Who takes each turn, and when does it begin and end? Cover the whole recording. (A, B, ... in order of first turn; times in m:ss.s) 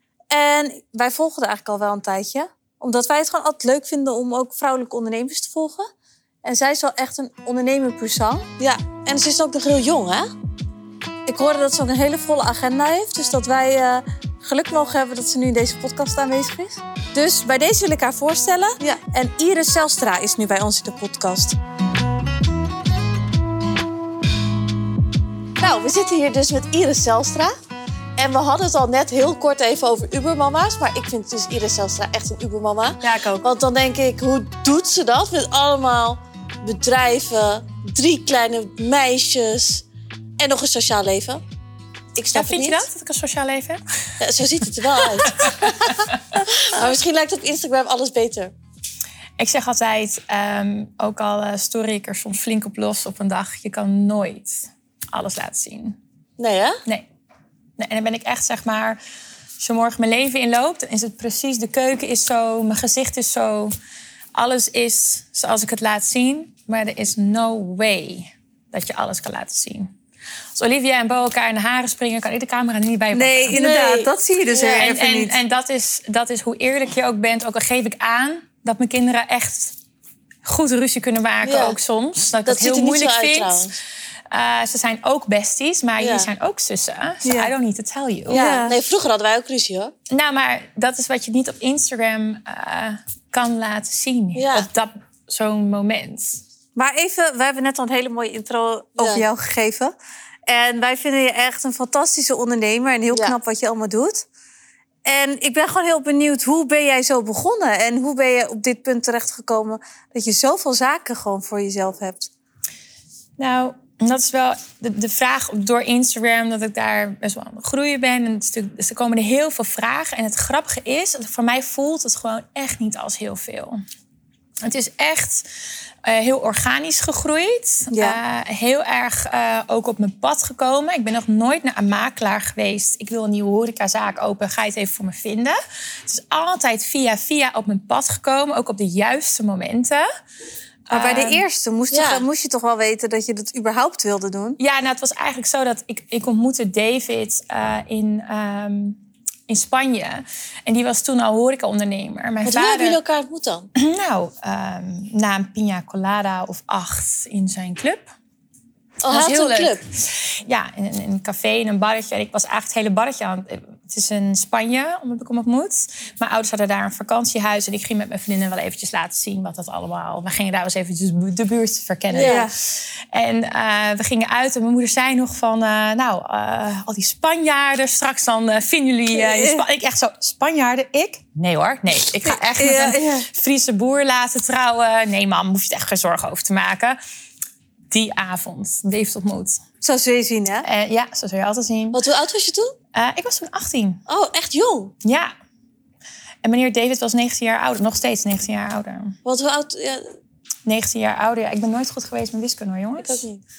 0:00.3-0:05.9 A
0:06.4-0:08.5 A
0:08.6-0:10.3 B
0:11.3-0:21.6 A
0:25.6-0:27.5 B
0:28.2-0:39.8 B
0:33.0-0:33.5 A
0:40.4-0:41.4 B
0:42.1-0:42.9 B
0:42.3-0:43.8 C
0:44.2-0:48.5 B
0:44.6-0:46.4 C
0:49.4-0:56.0 C
0:56.4-0:56.8 B
0:57.8-0:59.0 C
0:59.6-1:03.7 C
1:04.3-1:09.9 C
1:10.5-1:13.6 C
1:13.1-1:15.4 A
1:13.5-1:15.0 B
1:14.7-1:19.7 C
1:20.4-1:23.7 C
1:21.4-1:21.8 B
1:22.4-1:23.8 B
1:24.3-1:28.4 C
1:26.0-1:26.3 B
1:27.2-1:27.5 A
1:28.3-1:29.9 B
1:28.3-1:28.8 A
1:30.1-1:36.4 C
1:34.4-1:34.7 B
1:36.8-1:39.9 A
1:39.0-1:39.2 B
1:40.5-1:44.2 A
1:43.1-1:43.4 B
1:45.0-1:52.3 A
1:53.4-2:03.8 C
2:04.6-2:05.4 C
2:06.0-2:20.0 C
2:07.9-2:08.2 A
2:20.9-2:21.4 C
2:20.9-2:24.6 A
2:21.9-2:22.2 B
2:24.6-2:33.0 C
2:32.4-2:33.7 B
2:33.8-2:38.1 C
2:39.0-2:39.8 B
2:39.1-3:07.0 C
2:52.1-2:52.4 B
2:52.2-2:52.5 A
2:59.1-2:59.6 A
3:02.2-3:03.3 A
3:07.9-3:09.6 C
3:09.8-3:10.7 A
3:10.6-3:12.0 C
3:11.9-3:12.7 B
3:12.9-3:14.0 C
3:14.1-3:14.9 B
3:15.0-3:15.3 C
3:16.4-3:19.2 C
3:19.2-3:20.0 B
3:20.6-3:23.2 C
3:23.0-3:23.4 B